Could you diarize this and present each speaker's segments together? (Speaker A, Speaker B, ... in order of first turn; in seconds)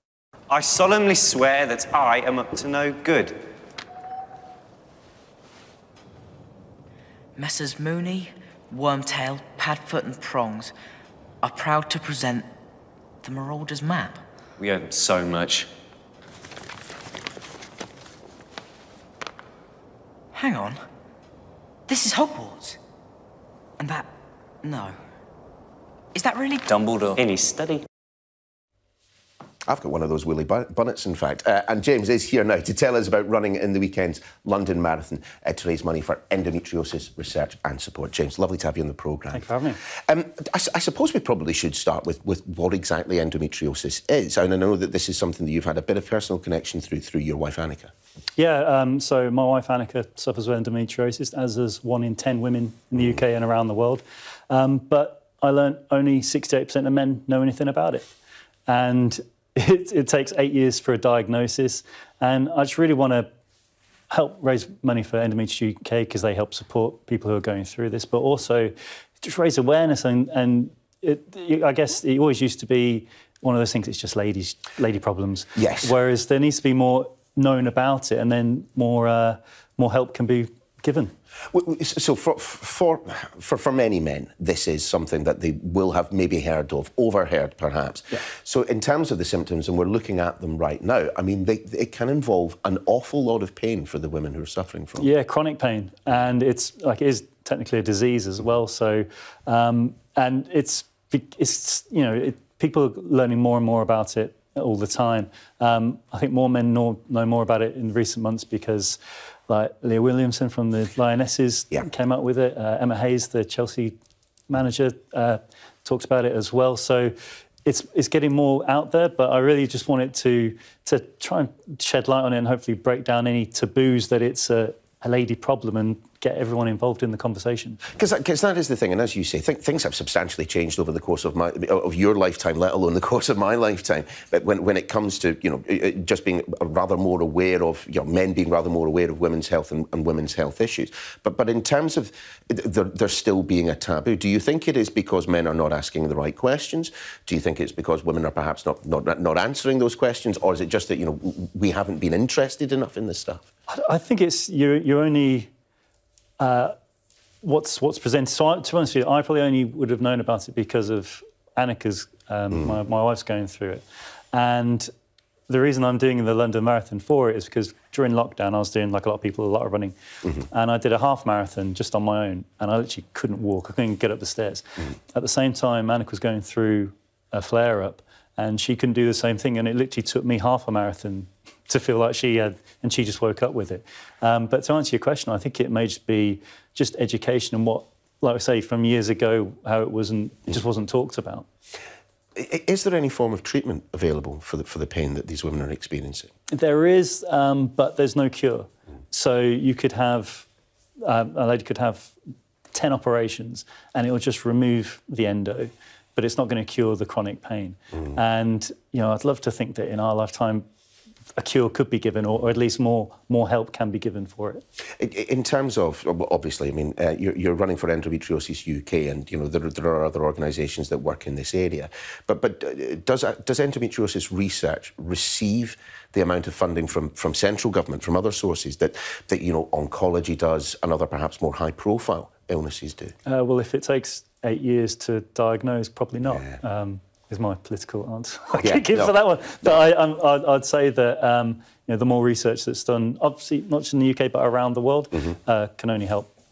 Speaker A: 0.5-3.4, 14.6-15.7, 26.7-27.8
Speaker B: 7.3-10.7, 11.4-12.5, 13.2-14.2, 20.3-20.8, 21.9-22.8, 23.8-24.1, 24.6-25.0, 26.1-26.7
Speaker C: 29.7-47.9, 75.5-75.9, 81.5-95.1, 127.9-153.4, 192.3-196.3, 215.0-233.1, 238.6-239.1
Speaker D: 39.3-39.8, 48.4-58.1, 58.7-63.3, 64.1-81.1, 95.0-113.9, 114.5-117.1, 117.6-127.8, 153.7-155.5, 156.4-156.7, 157.4-164.9, 165.5-191.4, 196.5-200.5, 201.0-202.1, 202.7-210.6, 211.4-214.6, 233.2-246.3